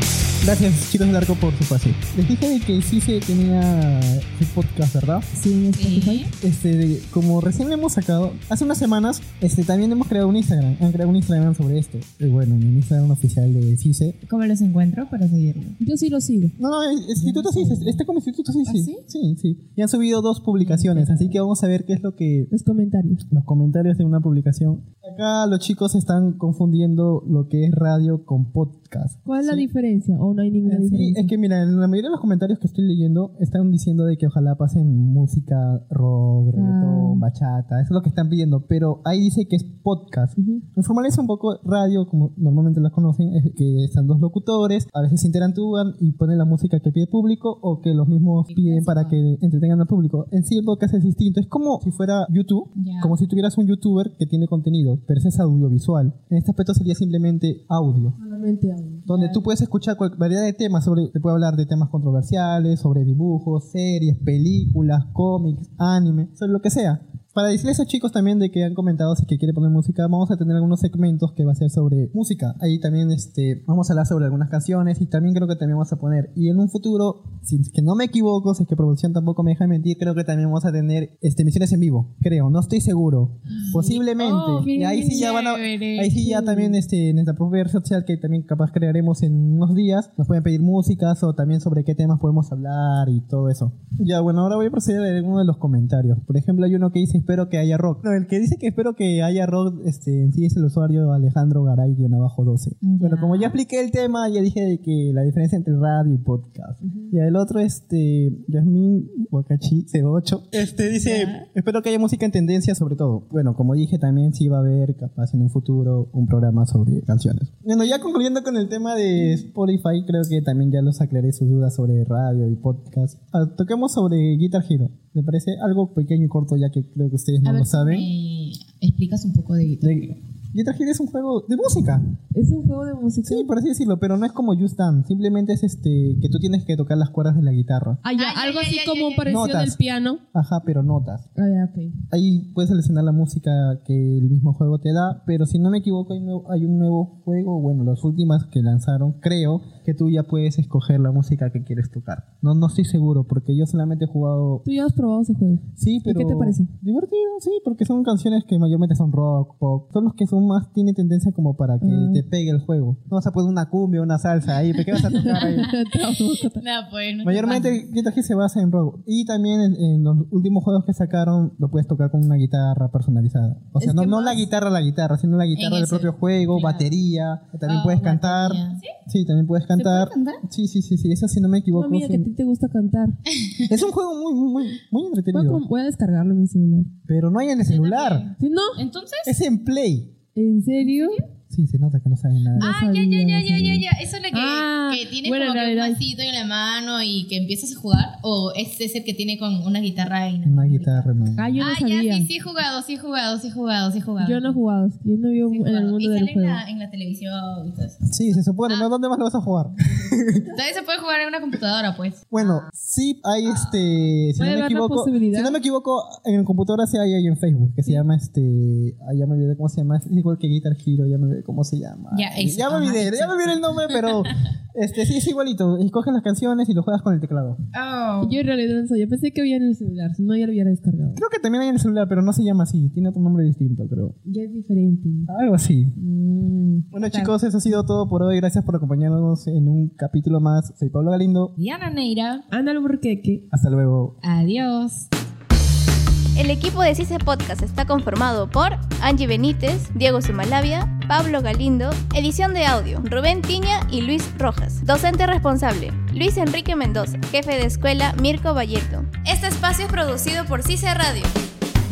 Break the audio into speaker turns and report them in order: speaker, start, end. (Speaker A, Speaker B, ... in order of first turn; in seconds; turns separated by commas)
Speaker A: 0.4-5.3, Speaker B: 5.3-6.3, Speaker C: 5.8-6.3, Speaker A: 6.4-14.2, Speaker C: 14.2-15.8, Speaker B: 15.8-16.5, Speaker A: 16.6-22.5, Speaker C: 17.2-18.0, Speaker C: 18.6-19.0, Speaker C: 20.6-21.4, Speaker B: 22.5-23.2, Speaker A: 23.3-29.7, Speaker B: 29.2-31.3, Speaker A: 30.6-58.1, Speaker B: 36.5-37.2, Speaker C: 48.5-49.2, Speaker C: 52.8-53.2, Speaker B: 58.2-59.4, Speaker A: 59.1-128.1, Speaker C: 83.6-86.5, Speaker B: 84.6-85.2, Speaker B: 86.3-86.6, Speaker C: 102.8-103.6, Speaker C: 111.0-111.4, Speaker C: 127.4-130.1, Speaker A: 129.8-132.0, Speaker B: 132.3-133.5, Speaker A: 133.2-138.0, Speaker B: 138.0-140.2, Speaker C: 138.1-139.3, Speaker A: 139.2-139.8, Speaker A: 140.3-141.2, Speaker B: 141.3-142.0, Speaker A: 142.1-154.6, Speaker B: 154.6-156.7, Speaker A: 155.8-165.7, Speaker B: 161.8-162.2, Speaker C: 164.9-167.8, Speaker B: 165.2-166.6, Speaker A: 167.2-182.3, Speaker C: 173.8-174.4, Speaker C: 175.5-176.9, Speaker C: 177.7-178.9, Speaker C: 179.8-180.4, Speaker B: 181.7-183.2, Speaker A: 183.7-185.6, Speaker B: 185.3-186.9, Speaker A: 187.1-188.3, Speaker C: 187.7-189.3, Speaker B: 188.4-188.8, Speaker A: 189.2-190.2, Speaker B: 190.3-191.2, Speaker C: 190.8-191.2, Speaker A: 191.5-192.8, Speaker B: 192.6-196.0, Speaker C: 192.6-204.6, Speaker A: 200.4-201.6, Speaker B: 201.3-202.3, Speaker B: 204.2-206.6, Speaker C: 205.4-208.9, Speaker A: 208.1-210.5, Speaker C: 210.5-212.7, Speaker A: 212.3-227.6, Speaker C: 213.4-213.9, Speaker B: 214.4-215.6, Speaker C: 222.1-224.2, Speaker C: 227.7-228.4, Speaker B: 228.2-231.2, Speaker A: 231.1-234.1, Speaker B: 234.2-235.3, Speaker A: 235.3-241.5, Speaker C: 237.1-237.3, Speaker C: 241.6-242.4, Speaker B: 242.5-243.4, Speaker A: 243.5-244.2, Speaker C: 244.2-245.1, Speaker D: 246.3-261.3